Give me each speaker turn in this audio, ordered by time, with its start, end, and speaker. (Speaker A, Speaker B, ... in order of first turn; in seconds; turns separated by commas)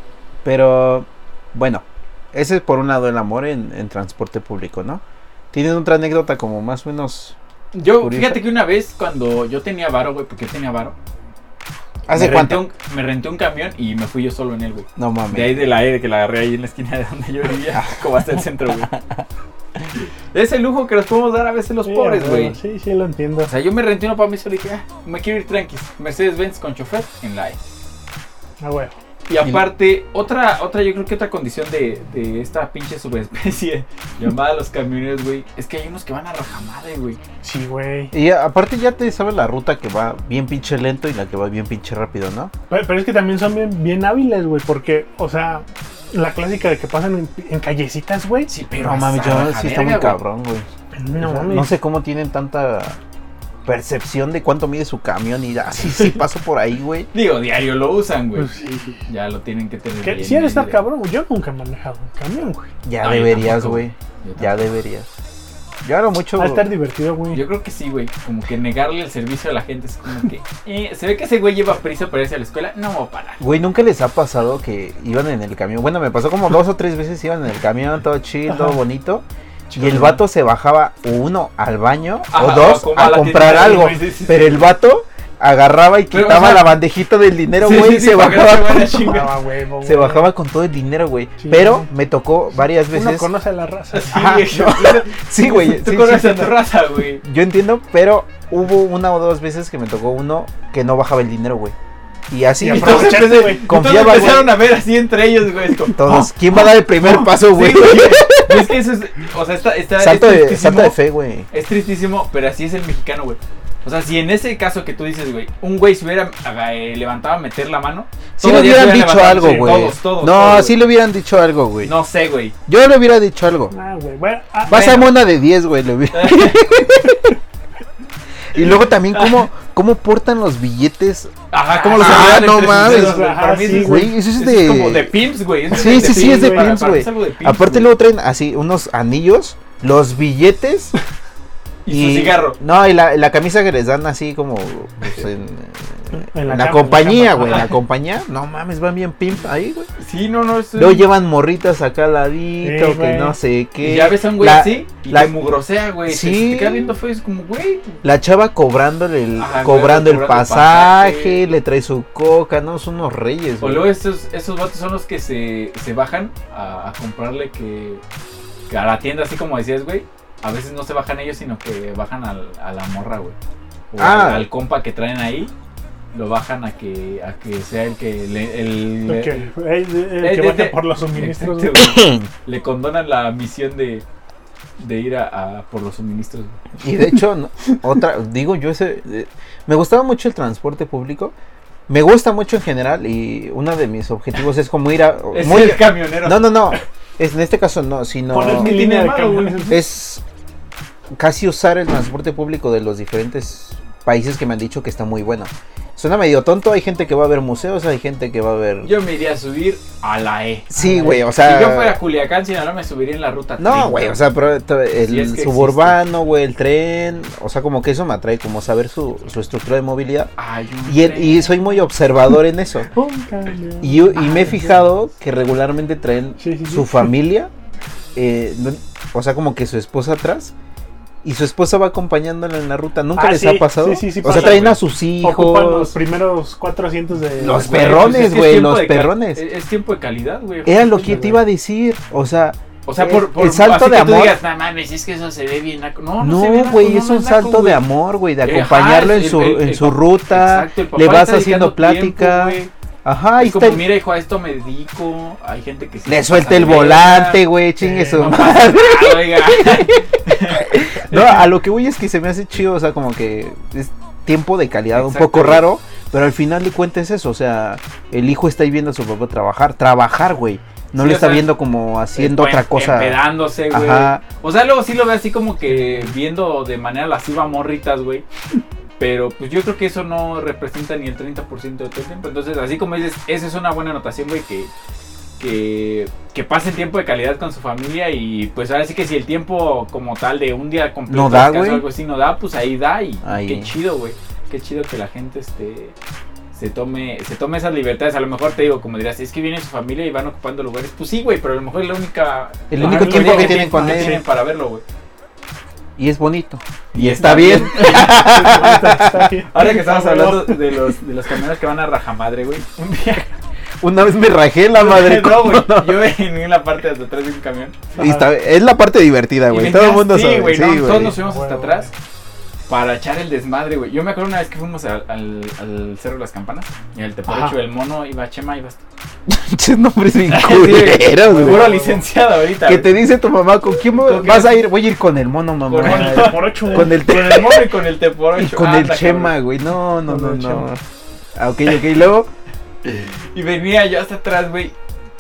Speaker A: 0.4-5.0, Speaker A: 5.5-7.4, Speaker B: 7.7-11.0, Speaker A: 8.0-8.4, Speaker A: 12.1-12.6, Speaker B: 12.1-18.9, Speaker A: 15.0-15.6, Speaker A: 17.7-18.0, Speaker A: 18.9-19.2, Speaker B: 20.3-22.6, Speaker C: 21.9-23.5, Speaker B: 23.5-27.6, Speaker C: 28.6-29.0, Speaker B: 29.3-37.2, Speaker C: 37.4-38.1, Speaker A: 38.1-42.5, Speaker C: 42.7-48.5, Speaker B: 48.5-50.2, Speaker A: 48.8-53.0, Speaker C: 51.0-51.8, Speaker A: 53.7-57.1, Speaker B: 57.1-58.5, Speaker C: 58.4-59.0, Speaker B: 59.1-60.8, Speaker C: 60.0-62.7, Speaker A: 62.8-65.1, Speaker B: 63.0-64.7, Speaker A: 65.8-66.7, Speaker C: 66.4-67.4, Speaker B: 67.3-73.4, Speaker A: 73.4-79.2, Speaker C: 78.5-78.8, Speaker B: 79.7-80.2, Speaker A: 79.8-89.2, Speaker B: 82.3-84.7, Speaker B: 86.1-86.8, Speaker B: 87.6-89.4, Speaker C: 89.0-90.3, Speaker A: 89.8-93.3, Speaker C: 91.4-91.9, Speaker C: 92.9-94.2, Speaker B: 93.9-97.2, Speaker A: 94.1-96.6, Speaker A: 97.2-101.8, Speaker A: 102.3-104.5, Speaker C: 102.6-103.7, Speaker B: 102.7-111.0, Speaker A: 105.9-108.7, Speaker A: 110.0-111.5, Speaker B: 111.5-120.8, Speaker A: 118.4-121.9, Speaker B: 121.8-122.6, Speaker A: 122.7-123.7, Speaker C: 123.7-125.0, Speaker B: 124.7-125.2, Speaker A: 124.7-127.4, Speaker B: 126.1-126.6, Speaker A: 128.5-131.3, Speaker B: 128.6-129.5, Speaker B: 131.5-137.9, Speaker C: 131.8-134.1, Speaker A: 131.9-135.2, Speaker A: 135.7-140.9, Speaker C: 135.8-136.7, Speaker B: 141.8-142.6, Speaker A: 141.9-149.9, Speaker C: 146.1-147.7, Speaker B: 150.0-151.1, Speaker A: 150.8-155.3, Speaker C: 152.6-153.4, Speaker B: 153.8-158.0, Speaker A: 156.1-156.9, Speaker A: 158.0-163.9, Speaker B: 159.4-161.4, Speaker B: 163.6-168.0, Speaker B: 168.7-173.4, Speaker B: 173.9-175.5, Speaker A: 174.0-174.5, Speaker B: 176.1-179.5, Speaker C: 179.1-181.8, Speaker B: 180.2-184.1, Speaker A: 181.8-182.3, Speaker B: 184.8-186.6, Speaker A: 186.8-191.3, Speaker A: 191.9-198.8, Speaker B: 195.3-196.8, Speaker C: 198.3-199.8, Speaker B: 198.4-199.8, Speaker A: 199.7-200.2, Speaker A: 201.2-208.9, Speaker B: 208.8-214.2, Speaker A: 210.7-212.0, Speaker C: 210.8-211.2, Speaker A: 213.6-220.3, Speaker B: 215.0-216.0, Speaker B: 220.4-221.8, Speaker A: 220.9-222.9, Speaker C: 222.9-224.8, Speaker A: 223.8-227.5, Speaker C: 226.4-227.1, Speaker A: 228.2-230.5, Speaker A: 231.2-236.0, Speaker C: 233.2-238.2, Speaker B: 234.2-234.8, Speaker A: 237.4-239.4, Speaker B: 237.5-241.3, Speaker A: 240.7-244.4, Speaker C: 241.0-241.4, Speaker B: 242.9-247.8, Speaker A: 246.2-253.9, Speaker B: 248.4-252.7, Speaker B: 253.4-257.4, Speaker A: 256.1-274.2, Speaker C: 257.8-258.3, Speaker B: 258.1-261.5, Speaker B: 264.9-265.7, Speaker B: 271.0-271.5, Speaker B: 272.2-278.2, Speaker B: 279.0-284.7, Speaker B: 285.4-295.9, Speaker A: 291.1-291.9, Speaker A: 293.2-293.7, Speaker B: 296.5-304.8, Speaker A: 302.7-304.2, Speaker C: 302.8-304.2, Speaker A: 306.0-309.3, Speaker B: 306.9-308.7, Speaker C: 307.3-310.6, Speaker B: 309.5-313.3, Speaker A: 313.8-316.1, Speaker B: 314.7-318.0, Speaker C: 318.0-318.3, Speaker A: 318.0-321.2, Speaker B: 319.5-321.9, Speaker C: 321.1-321.9, Speaker B: 322.7-328.8, Speaker C: 327.3-327.6, Speaker A: 329.3-331.7, Speaker B: 330.3-332.9, Speaker C: 331.2-332.1, Speaker A: 332.6-337.7, Speaker B: 333.9-334.6, Speaker B: 335.7-339.4, Speaker C: 335.8-336.9, Speaker A: 338.4-340.8, Speaker C: 340.1-340.7, Speaker A: 341.4-342.3, Speaker B: 342.9-344.7